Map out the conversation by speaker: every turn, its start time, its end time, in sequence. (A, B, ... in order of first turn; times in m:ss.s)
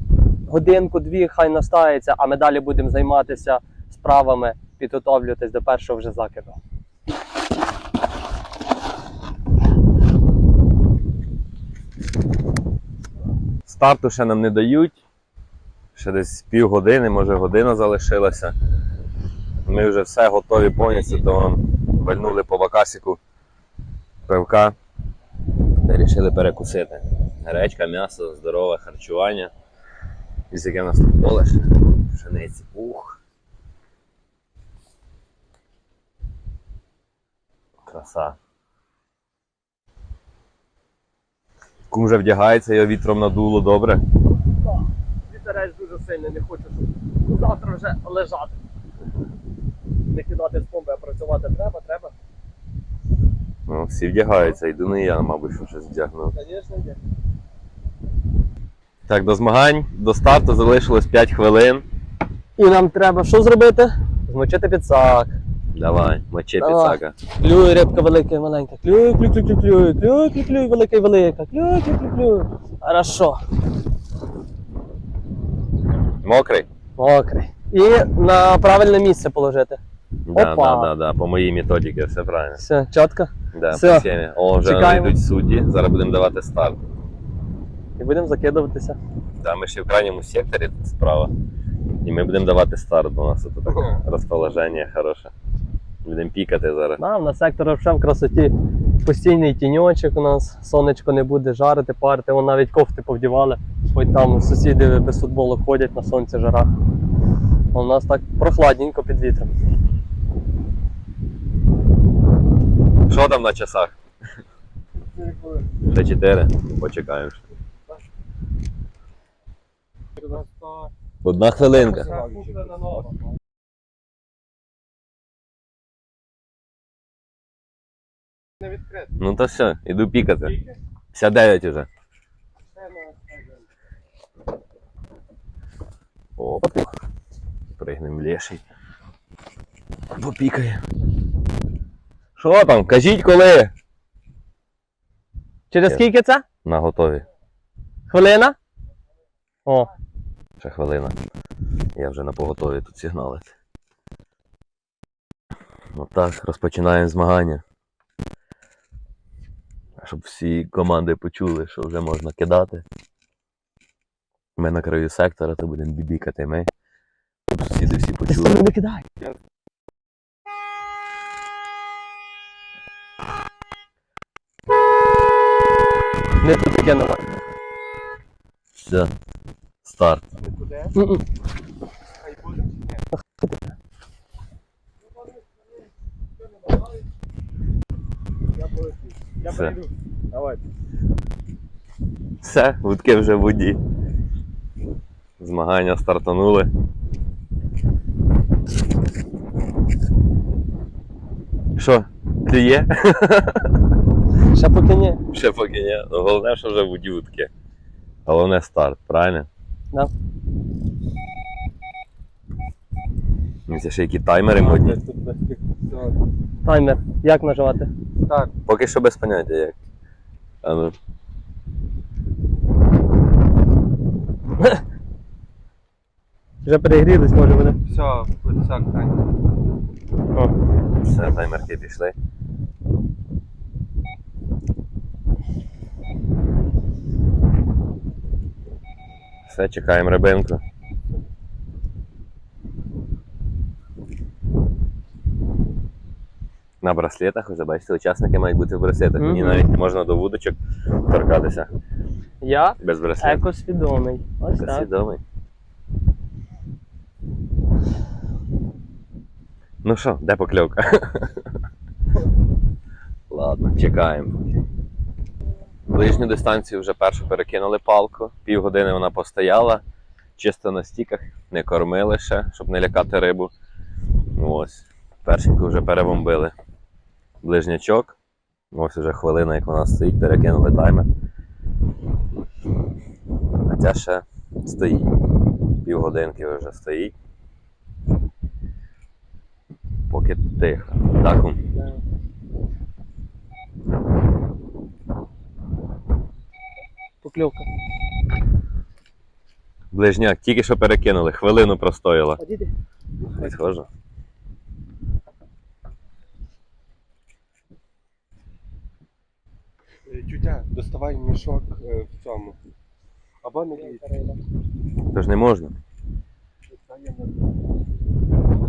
0:00.5-0:06.6 A
0:13.7-0:15.0 B
0:16.0-0:18.6 B
0:19.7-0:23.2 B
0:24.3-0:24.8 B
0:25.8-0:29.5 B
0:30.5-0:33.2 B
0:37.9-0:38.4 B
0:41.9-0:44.0 B
0:45.3-0:48.6 A
0:50.1-0:52.1 A
0:53.7-0:56.3 B
0:56.4-0:57.0 A
0:59.1-1:01.9 B
1:02.6-1:05.4 A
1:05.7-1:07.2 B
1:06.6-1:13.4 A
1:16.2-1:16.7 B
1:17.0-1:19.8 A
1:20.3-1:22.6 B
1:20.3-1:20.9 A
1:22.6-1:24.1 A
1:23.5-1:26.9 B
1:24.6-1:25.1 A
1:28.0-1:29.0 A
1:29.4-1:31.3 B
1:32.0-1:35.3 B
1:36.0-1:37.0 B
1:37.0-1:46.7 A
1:47.7-1:49.5 A
1:53.1-1:53.9 B
1:55.1-1:55.8 C
1:55.9-1:57.4 B
2:00.2-2:00.9 C
2:01.2-2:02.2 B
2:01.7-2:03.1 C
2:08.8-2:09.1 C
2:09.2-2:10.6 B
2:11.1-2:11.9 B
2:12.8-2:13.6 C
2:16.4-2:16.9 B
2:17.8-2:18.6 B
2:20.1-2:20.8 B
2:22.4-2:23.7 B
2:25.7-2:26.4 A
2:26.6-2:27.2 B
2:28.1-2:28.6 A
2:30.6-2:31.2 B
2:32.0-2:33.5 B
2:35.9-2:37.6 B
2:40.0-2:42.9 B
2:44.6-2:46.7 B
2:47.5-2:48.6 B
2:48.3-2:49.0 A
2:56.4-2:57.3 A
2:58.8-2:59.1 B
2:59.8-3:00.3 B
3:00.4-3:01.0 C
3:01.0-3:01.2 A
3:02.2-3:03.0 C
3:03.4-3:03.7 A
3:08.6-3:10.6 C
3:09.4-3:09.8 B
3:12.4-3:13.8 B
3:15.4-3:16.7 B
3:21.8-3:23.7 B
3:24.5-3:25.2 A
3:25.3-3:27.5 B
3:28.3-3:29.5 B
3:33.7-3:35.0 B
3:34.5-3:36.2 C
3:36.6-3:37.9 A
3:38.2-3:38.5 C
3:38.7-3:39.8 B
3:40.6-3:41.0 B
3:46.6-3:47.8 A
3:47.8-3:49.3 C
3:51.0-3:52.2 B
3:59.5-4:00.6 B
4:06.8-4:10.6 B
4:09.2-4:09.7 A
4:11.1-4:11.7 B
4:12.4-4:14.9 A
4:12.8-4:13.4 B
4:14.6-4:15.2 B
4:19.8-4:21.5 B
4:23.3-4:24.6 B
4:25.9-4:29.8 B
4:30.4-4:33.5 B
4:34.3-4:36.5 B
4:37.4-4:38.2 B
4:38.7-4:41.1 B
4:43.6-4:45.2 B
4:45.8-4:47.1 B
4:50.1-4:51.6 B
4:57.2-4:57.7 A
4:59.9-5:02.4 B
5:02.4-5:02.7 A
5:03.4-5:03.9 B
5:10.1-5:12.6 C
5:13.4-5:14.0 C
5:13.7-5:14.4 A
5:15.1-5:15.8 B
5:16.7-5:17.5 C